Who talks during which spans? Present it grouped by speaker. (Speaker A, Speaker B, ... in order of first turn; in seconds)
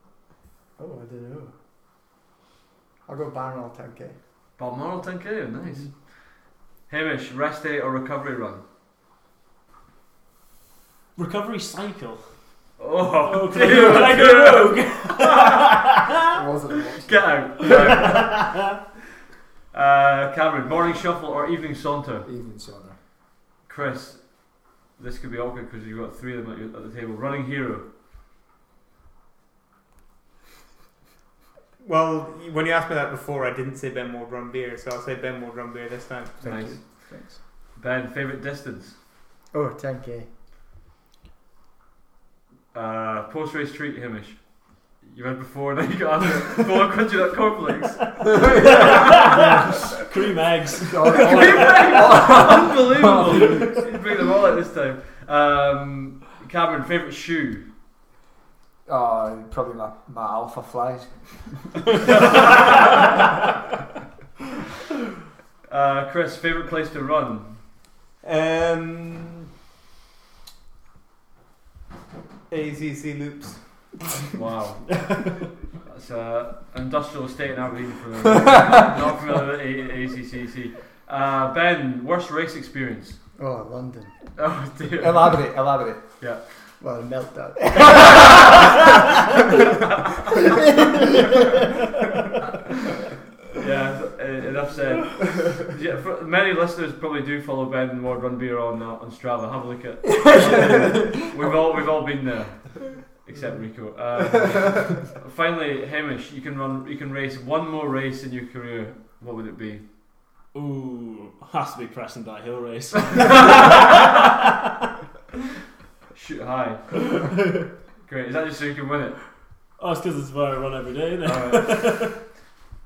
Speaker A: 0.8-1.6, 3.0-4.2, 36.4-37.4, 39.5-40.3, 83.4-84.3, 86.8-88.4, 90.5-91.5
Speaker B: 4.6-8.6, 12.8-15.7, 17.1-18.8, 19.7-22.3, 23.6-27.9, 36.4-39.0, 42.7-49.3, 51.1-57.7, 62.0-63.0, 65.7-67.7, 74.3-75.2, 75.8-83.2, 84.4-86.8, 93.5-109.9, 113.2-114.0, 116.1-117.4, 118.0-119.4, 121.2-122.3
Speaker C: 11.2-15.8, 17.7-18.4, 48.8-51.7, 110.5-113.8, 119.8-122.2
Speaker D: 16.3-18.1, 22.2-23.0, 48.3-49.2, 50.9-53.7, 58.9-61.8, 85.0-86.4, 100.2-101.7
Speaker E: 31.8-36.7, 68.2-69.3, 72.5-74.0